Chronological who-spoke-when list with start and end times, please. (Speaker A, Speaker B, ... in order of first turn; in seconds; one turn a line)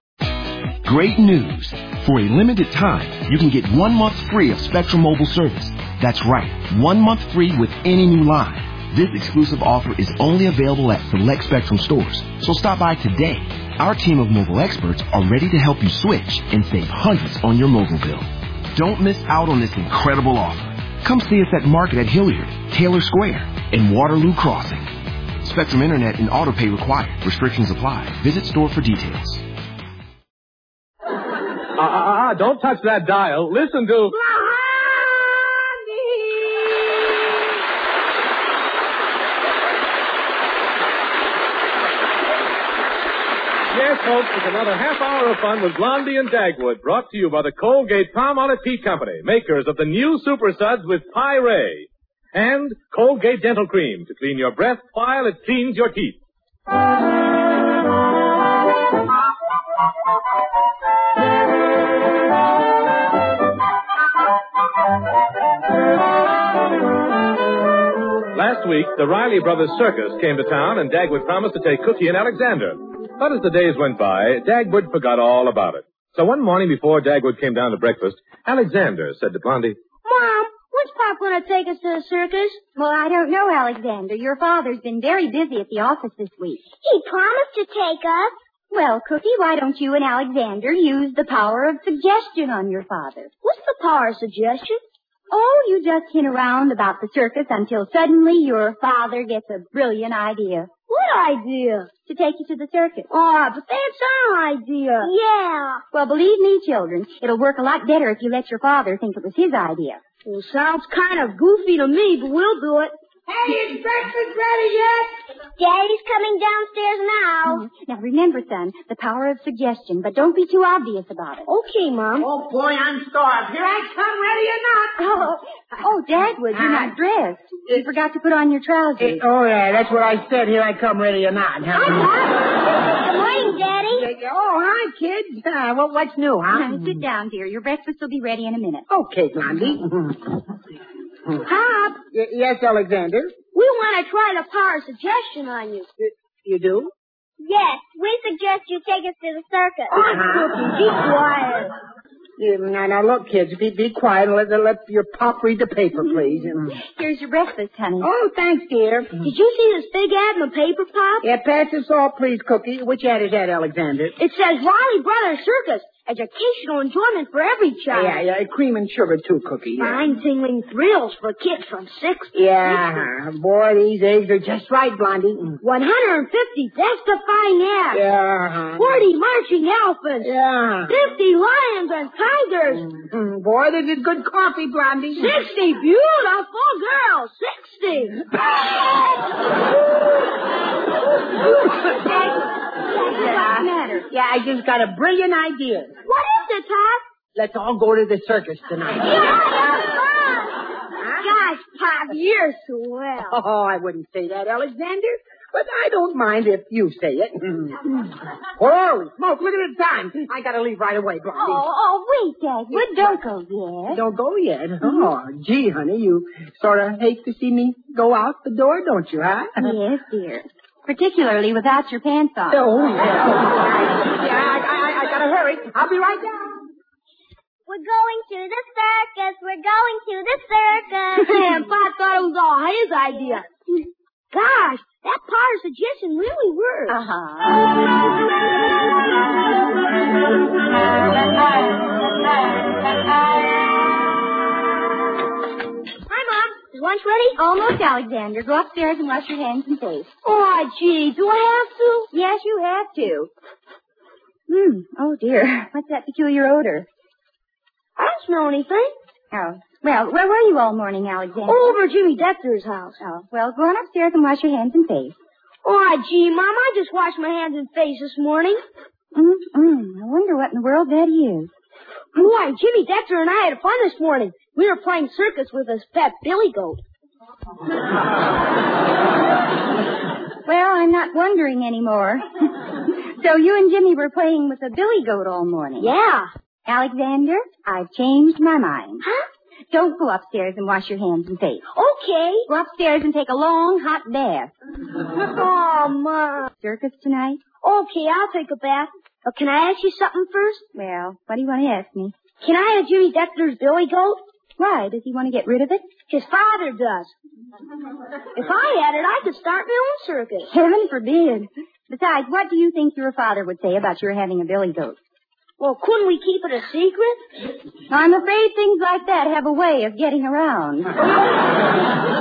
Speaker A: 0.8-24.9
Speaker A: 25.4-29.4
Speaker B: 31.7-34.1
Speaker C: 34.2-36.8
Speaker B: 43.7-56.2
Speaker B: 68.3-79.8
Speaker D: 80.0-82.6
Speaker E: 82.8-86.6
Speaker D: 86.8-88.3
Speaker E: 88.7-93.3
Speaker D: 93.4-94.8
Speaker E: 95.3-100.7
Speaker D: 100.9-101.9
Speaker E: 102.1-103.1
Speaker D: 103.1-105.8
Speaker E: 105.9-110.0
Speaker D: 110.2-112.9
Speaker C: 113.3-115.1
Speaker D: 115.6-117.6
Speaker E: 117.4-121.5
Speaker D: 121.5-122.3
Speaker C: 122.2-125.1
Speaker E: 125.0-129.2
Speaker C: 126.5-126.9
Speaker C: 129.0-132.1
Speaker D: 131.7-134.1
Speaker C: 133.9-137.0
Speaker E: 136.5-138.8
Speaker C: 138.9-140.4
Speaker C: 141.3-143.3
Speaker D: 143.5-145.9
Speaker C: 146.0-146.9
Speaker D: 147.4-151.7
Speaker C: 149.9-151.0
Speaker C: 152.4-156.7
Speaker E: 156.7-158.1
Speaker C: 158.0-159.2
Speaker D: 159.2-161.2
Speaker C: 161.2-164.1
Speaker D: 164.2-168.2
Speaker C: 167.9-170.0
Speaker D: 169.8-173.1
Speaker C: 172.3-175.6
Speaker D: 175.6-178.0
Speaker C: 177.9-178.8
Speaker D: 178.8-180.3
Speaker C: 180.2-180.9
Speaker D: 180.9-182.8
Speaker C: 182.8-185.3
Speaker D: 185.2-188.3
Speaker C: 191.4-191.9
Speaker E: 192.9-194.1
Speaker C: 193.2-195.9
Speaker D: 196.0-197.0
Speaker C: 197.3-199.9
Speaker D: 199.0-200.6
Speaker C: 201.0-201.3
Speaker D: 201.2-203.4
Speaker C: 203.3-211.7
Speaker E: 211.3-214.0
Speaker C: 212.7-213.1
Speaker C: 213.9-219.6
Speaker E: 214.8-215.1
Speaker E: 219.6-222.6
Speaker C: 222.5-226.6
Speaker D: 227.7-233.5
Speaker E: 231.2-231.5
Speaker D: 234.3-236.9
Speaker E: 236.9-237.7
Speaker D: 246.1-247.4
Speaker E: 247.3-250.1
Speaker D: 250.2-252.1
Speaker E: 252.1-253.3
Speaker E: 254.5-256.9
Speaker D: 258.0-258.9
Speaker E: 259.3-261.7
Speaker D: 261.4-263.0
Speaker E: 263.0-265.1
Speaker D: 265.6-268.6
Speaker E: 269.1-271.5
Speaker D: 272.1-276.8
Speaker E: 280.4-285.9
Speaker D: 285.8-286.3
Speaker E: 286.7-289.0
Speaker E: 289.7-291.6
Speaker D: 291.7-292.4
Speaker E: 292.5-294.5
Speaker D: 295.1-296.5
Speaker E: 296.6-297.4
Speaker D: 297.6-300.6
Speaker E: 300.7-302.1
Speaker D: 302.4-304.2
Speaker E: 304.6-305.9
Speaker D: 306.1-307.1
Speaker D: 308.3-310.5
Speaker E: 310.5-315.0
Speaker D: 315.6-317.2
Speaker E: 317.9-321.0